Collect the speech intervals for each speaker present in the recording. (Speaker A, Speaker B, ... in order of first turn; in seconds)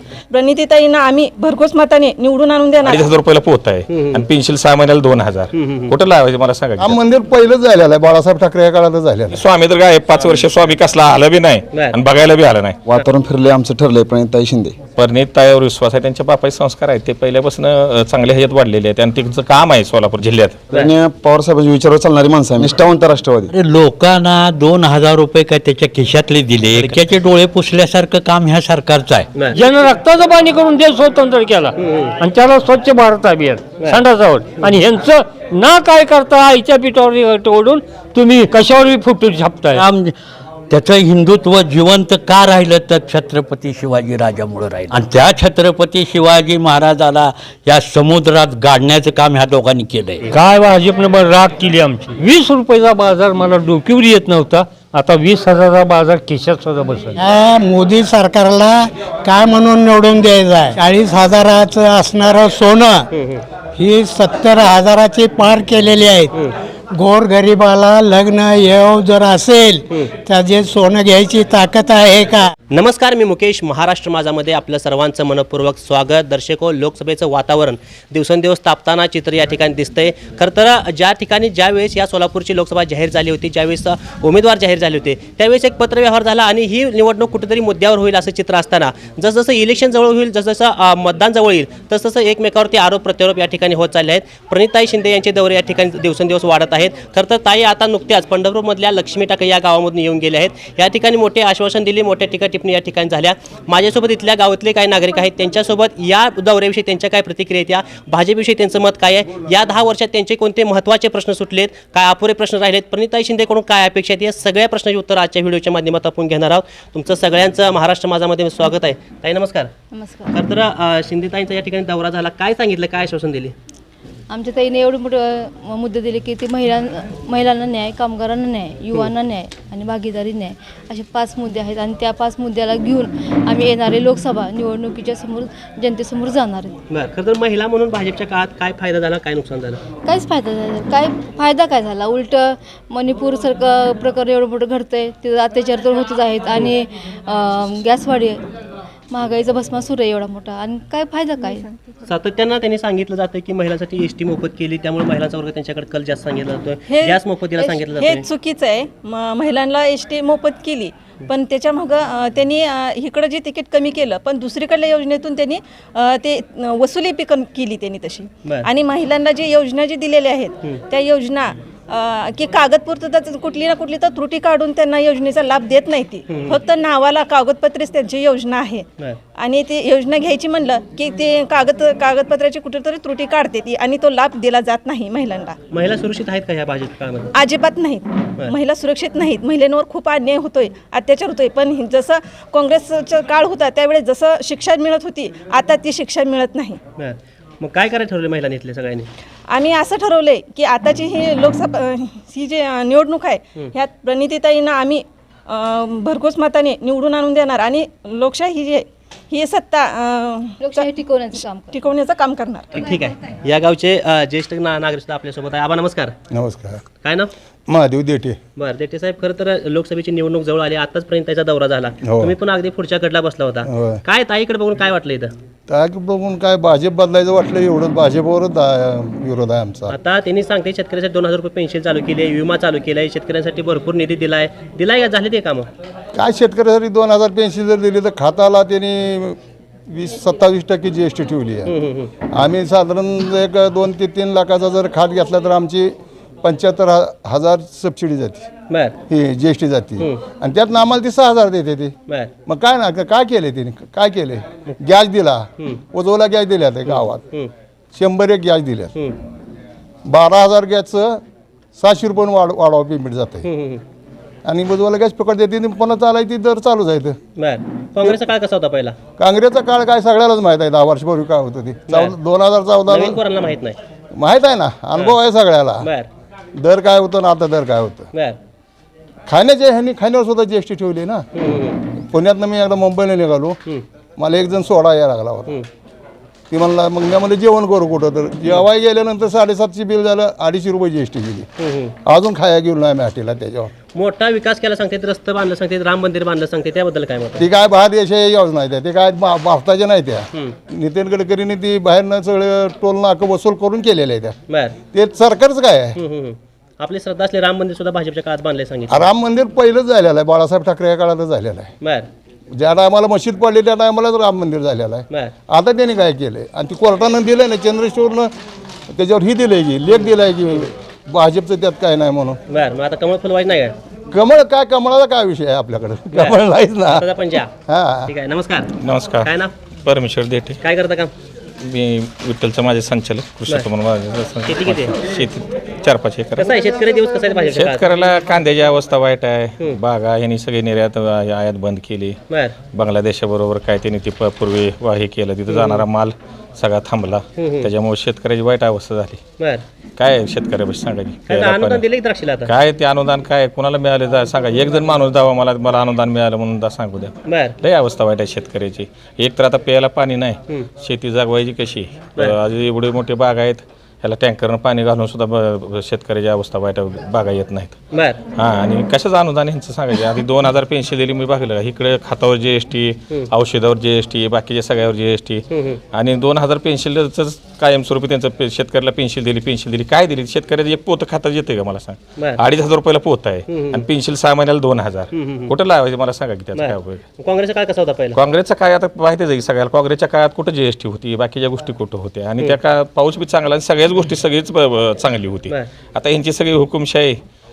Speaker A: 0.3-3.1, 151.3-151.9, 156.9-178.9, 179.4-185.6, 187.3-196.8, 199.5-212.8
Speaker B: 2.9-7.0, 9.3-12.8, 15.0-20.6, 328.8-329.3, 329.9-330.6, 331.6-336.5, 337.5-342.2, 342.7-349.2, 350.0-351.8, 352.5-367.8, 368.4-387.0, 388.1-397.2
Speaker C: 3.9-4.3, 5.5-5.9, 31.8-32.1, 63.1-63.4, 72.7-119.7, 120.3-123.5, 136.9-139.8, 152.1-158.3, 176.3-176.6, 185.7-187.3, 197.0-199.1, 212.7-216.1, 217.0-217.3, 218.6-225.3, 229.9-235.7, 241.7-242.1, 256.9-257.5, 263.4-263.8, 267.4-268.9, 272.9-273.8, 275.8-276.1, 281.4-281.8, 291.6-291.9, 293.9-297.4, 304.5-304.8, 306.0-309.1, 311.8-312.1, 322.5-323.8, 326.1-327.5, 328.1-328.7, 329.2-329.5, 330.6-331.1, 334.5-335.0, 336.4-337.8, 342.3-342.6, 345.5-345.8, 347.4-347.7, 351.3-352.5, 357.3-357.6, 367.9-368.2, 375.5-375.8, 383.5-383.9, 385.1-385.5, 386.6-388.2
Speaker D: 6.8-9.4, 216.3-216.8, 217.7-218.4, 222.0-222.3, 223.7-224.0, 225.7-229.9, 236.2-241.7, 242.3-248.5, 249.1-251.9, 252.5-257.2, 257.9-258.9, 260.1-261.2, 261.8-263.5, 264.4-267.2, 269.2-273.2, 274.1-275.9, 276.6-278.1, 279.3-281.3, 282.0-283.6, 284.2-285.6, 286.5-291.5, 292.1-293.7, 297.4-304.4, 304.9-306.0, 308.9-311.7, 312.5-318.3, 318.9-322.4, 324.1-327.1, 327.7-328.1
Speaker E: 12.9-14.8, 20.7-23.5
Speaker F: 23.5-29.3, 39.7-40.1, 40.7-50.3
Speaker G: 29.5-39.8, 50.3-57.1
Speaker H: 57.2-63.1, 63.8-66.3, 67.0-72.5
Speaker I: 119.9-120.4, 124.3-136.8, 140.1-148.4, 149.1-151.6, 210.6-211.8